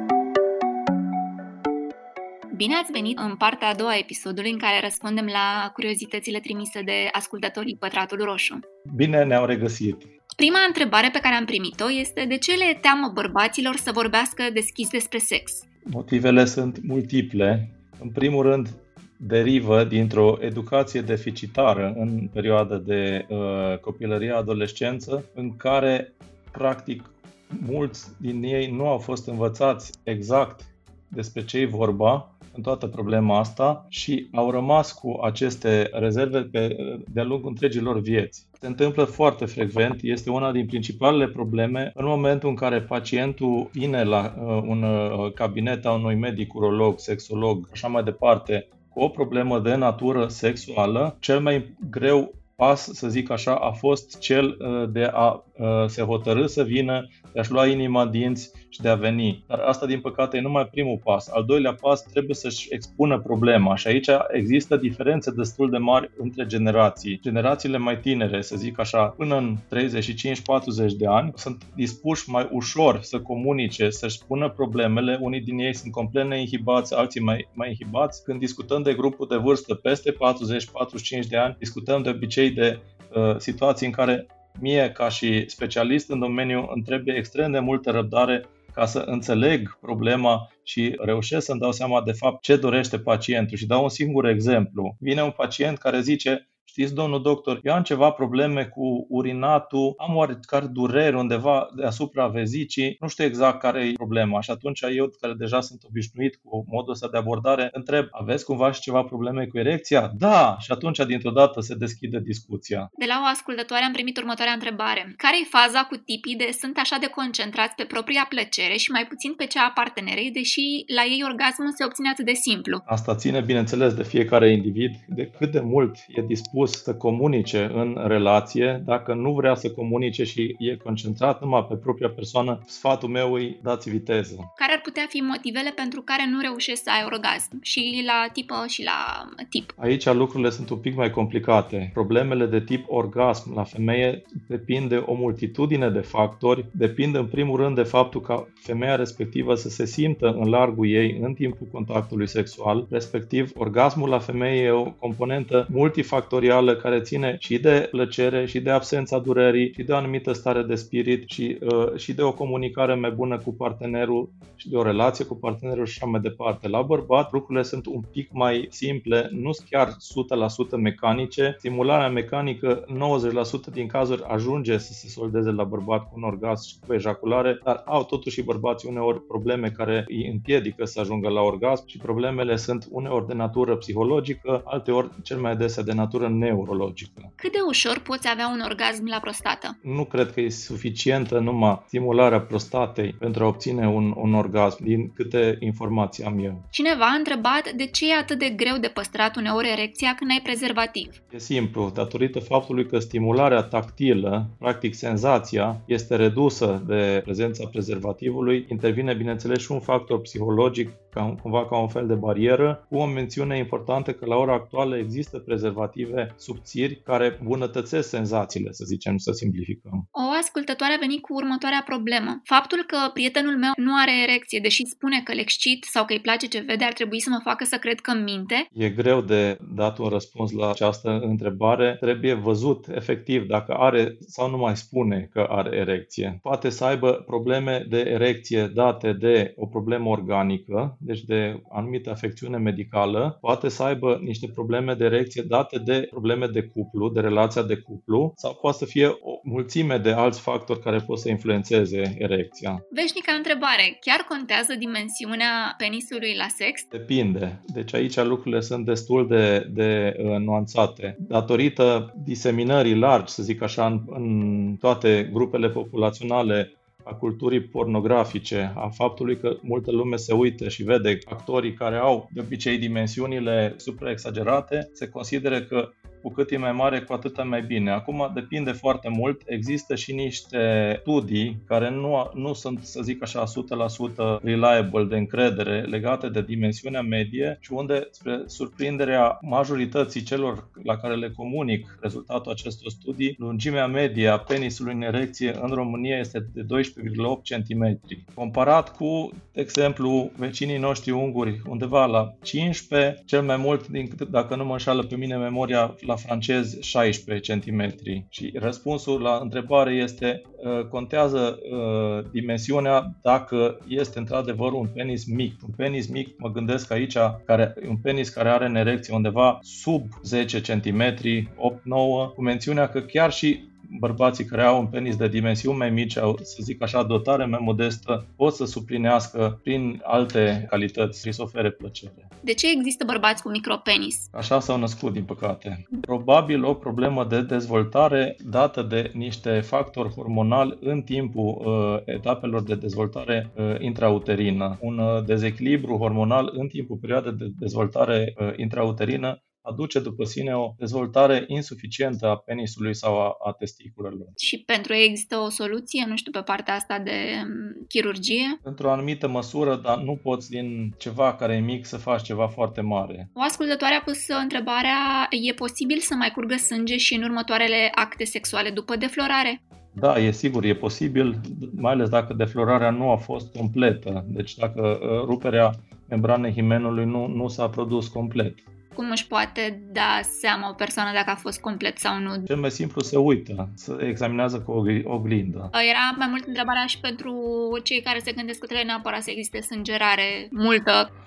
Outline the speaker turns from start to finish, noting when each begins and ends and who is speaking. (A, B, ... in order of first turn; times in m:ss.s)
0:02.5-0:08.6 A
0:08.9-0:10.1 B
0:10.3-0:15.6 A
0:15.9-1:52.9 B
1:53.0-2:02.8 A
2:02.9-2:14.5 B
2:14.6-2:19.7 A
2:19.8-3:07.3 B
3:07.4-3:09.7 A
3:09.8-3:16.6 B
3:16.7-3:21.2 A
3:21.3-3:40.0 B
3:40.1-3:48.7 A
3:48.7-4:12.8 B
4:12.9-4:16.9 A
4:16.9-5:32.3 B
5:32.4-5:34.3 A
5:34.3-5:54.3 B
5:54.4-5:58.6 A
5:58.6-6:03.3 B
6:03.4-6:09.6 A
6:09.9-6:18.6 B
6:19.0-6:22.5 A
6:22.5-6:25.7 B
6:25.7-6:31.1 A